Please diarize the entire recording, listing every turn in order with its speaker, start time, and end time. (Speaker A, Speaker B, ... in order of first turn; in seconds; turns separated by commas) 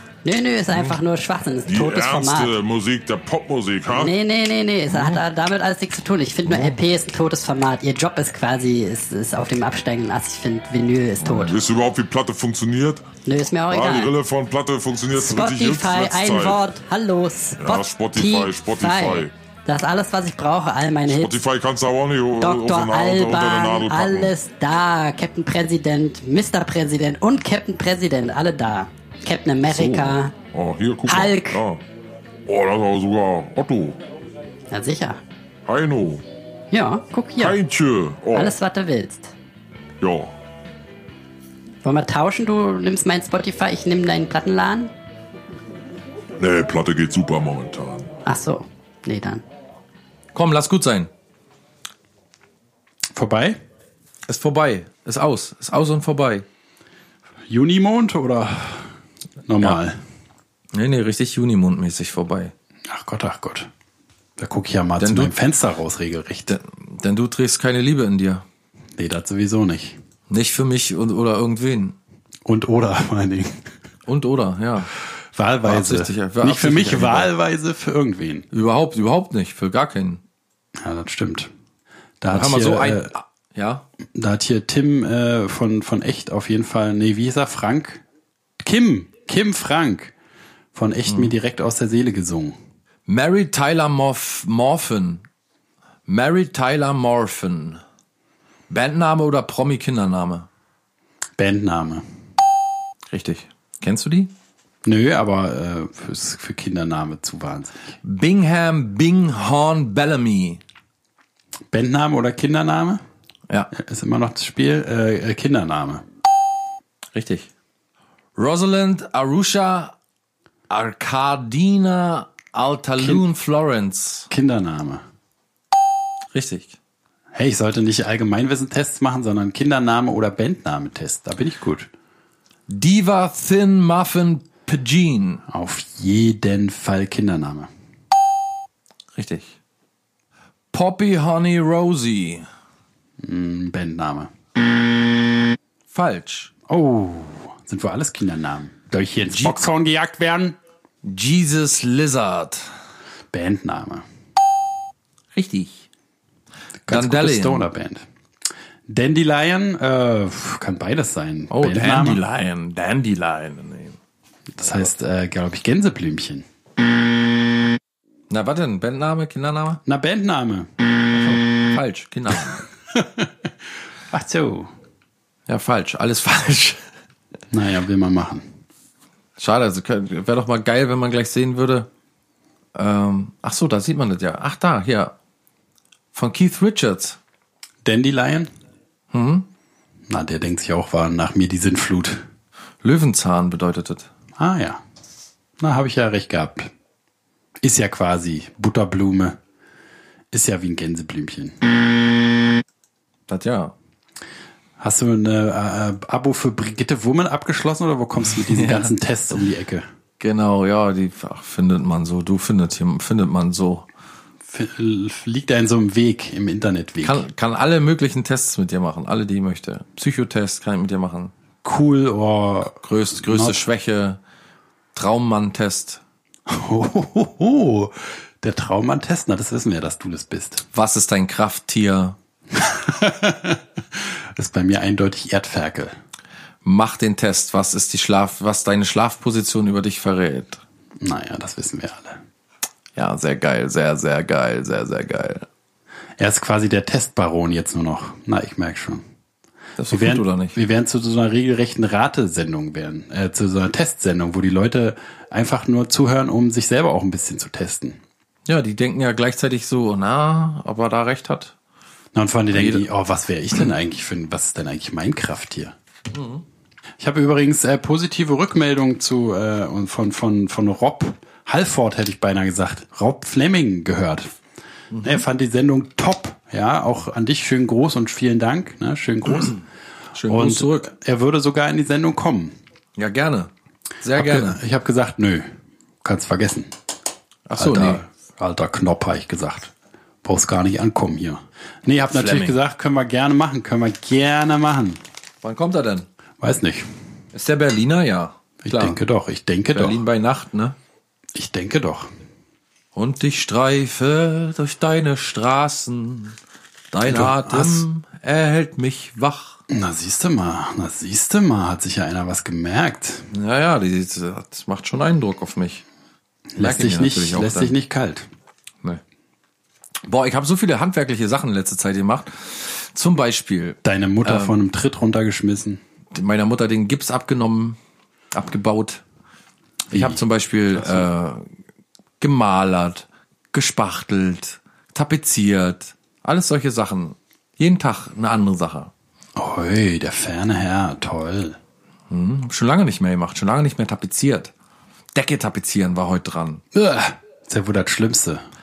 Speaker A: 0.2-2.5, Speaker B: 0.7-1.0, Speaker B: 1.7-4.1, Speaker A: 3.9-11.6, Speaker B: 4.9-5.2, Speaker B: 6.5-6.8, Speaker B: 11.2-13.1, Speaker A: 13.2-14.1, Speaker B: 13.7-16.6, Speaker A: 15.1-21.3, Speaker B: 17.6-19.3, Speaker B: 21.1-24.3, Speaker A: 22.4-30.3, Speaker B: 29.7-31.8, Speaker A: 31.1-31.6, Speaker B: 32.5-34.0, Speaker A: 34.7-35.2, Speaker B: 35.7-36.2, Speaker A: 36.7-37.6, Speaker B: 37.4-38.6, Speaker A: 38.3-39.3, Speaker B: 40.0-40.3, Speaker A: 41.8-44.9, Speaker B: 46.4-48.1, Speaker A: 48.2-49.4, Speaker C: 50.3-51.1, Speaker D: 53.1-53.6, Speaker C: 54.3-56.5, Speaker D: 57.5-58.9, Speaker D: 59.5-60.0, Speaker C: 60.7-62.5, Speaker D: 62.9-63.7, Speaker D: 64.4-66.5, Speaker C: 65.0-65.3, Speaker C: 66.5-68.5, Speaker D: 69.0-70.0, Speaker C: 70.3-72.0, Speaker D: 72.5-73.6, Speaker C: 74.1-74.9, Speaker D: 75.3-78.5, Speaker C: 75.7-77.3, Speaker C: 78.5-80.2, Speaker D: 80.8-81.5, Speaker D: 82.2-83.1, Speaker C: 82.3-83.8, Speaker D: 84.2-88.0, Speaker D: 88.6-90.1, Speaker D: 90.7-92.6, Speaker C: 91.1-91.3, Speaker C: 93.1-95.2, Speaker C: 96.1-97.8, Speaker C: 98.7-100.5, Speaker D: 101.4-102.0, Speaker C: 103.1-104.3, Speaker D: 104.8-107.8, Speaker C: 108.0-110.6, Speaker D: 111.7-113.0, Speaker D: 113.7-116.0, Speaker C: 117.1-117.5, Speaker C: 118.4-119.9, Speaker C: 120.7-124.3, Speaker D: 123.0-123.2, Speaker D: 124.3-125.0, Speaker C: 126.3-126.8, Speaker D: 127.3-131.9, Speaker C: 132.7-135.4, Speaker D: 135.5-137.7, Speaker C: 139.2-139.5, Speaker C: 140.7-142.5, Speaker D: 143.2-144.3, Speaker C: 145.9-146.5, Speaker D: 146.7-150.6, Speaker C: 149.3-149.7, Speaker C: 151.0-152.7, Speaker D: 153.3-154.1, Speaker C: 155.3-155.8, Speaker D: 156.9-158.1, Speaker C: 156.9-157.7, Speaker D: 158.9-162.2, Speaker C: 161.5-164.0, Speaker D: 164.5-166.4, Speaker C: 168.3-169.8, Speaker D: 169.9-170.7, Speaker C: 171.1-172.7, Speaker D: 172.3-173.5, Speaker D: 174.1-174.7, Speaker C: 175.5-176.8, Speaker D: 177.5-178.4, Speaker C: 179.4-181.9, Speaker C: 182.8-185.1, Speaker C: 186.1-187.2, Speaker D: 187.8-188.5, Speaker C: 189.1-189.5, Speaker D: 190.1-192.2, Speaker C: 192.8-194.1, Speaker D: 194.4-194.8, Speaker D: 195.6-196.7, Speaker D: 197.6-199.4, Speaker D: 200.3-201.6, Speaker C: 203.3-203.7, Speaker D: 204.8-209.8, Speaker C: 208.3-208.9, Speaker C: 210.2-213.9, Speaker D: 214.5-217.2, Speaker C: 217.0-221.3, Speaker D: 221.6-223.6, Speaker C: 222.8-224.2, Speaker C: 224.9-226.0, Speaker D: 226.5-230.6, Speaker C: 230.7-232.2, Speaker D: 232.5-235.9, Speaker C: 236.6-240.6, Speaker D: 241.0-242.2, Speaker C: 243.0-245.5, Speaker D: 246.2-249.0, Speaker C: 249.8-250.6, Speaker D: 249.9-258.0, Speaker C: 258.5-261.5, Speaker D: 262.1-265.8, Speaker C: 262.5-262.9, Speaker C: 266.1-266.4, Speaker D: 267.0-274.3, Speaker C: 274.9-275.2, Speaker D: 275.0-279.6, Speaker C: 279.3-279.6, Speaker C: 280.1-280.9, Speaker D: 280.3-282.6, Speaker C: 283.0-283.5, Speaker C: 284.0-284.6, Speaker D: 284.1-285.5, Speaker D: 286.0-286.7, Speaker C: 287.5-288.0, Speaker D: 287.6-289.7, Speaker D: 290.2-295.0, Speaker C: 292.1-292.6, Speaker C: 295.4-296.1, Speaker D: 296.4-296.9, Speaker C: 297.3-299.0, Speaker D: 298.6-300.0, Speaker C: 299.7-300.8, Speaker D: 301.4-302.1, Speaker C: 302.9-306.4, Speaker C: 306.9-309.6, Speaker D: 307.1-307.9, Speaker D: 309.7-313.3, Speaker C: 313.3-315.8, Speaker D: 316.5-318.3, Speaker C: 316.6-317.7, Speaker C: 320.1-324.6, Speaker D: 323.9-325.8, Speaker C: 326.1-327.8, Speaker C: 328.3-329.0, Speaker D: 329.9-330.2, Speaker C: 329.9-331.5, Speaker D: 330.8-331.1, Speaker C: 332.2-338.9, Speaker D: 339.4-341.6, Speaker C: 342.1-344.5, Speaker C: 345.1-346.6, Speaker D: 346.7-348.4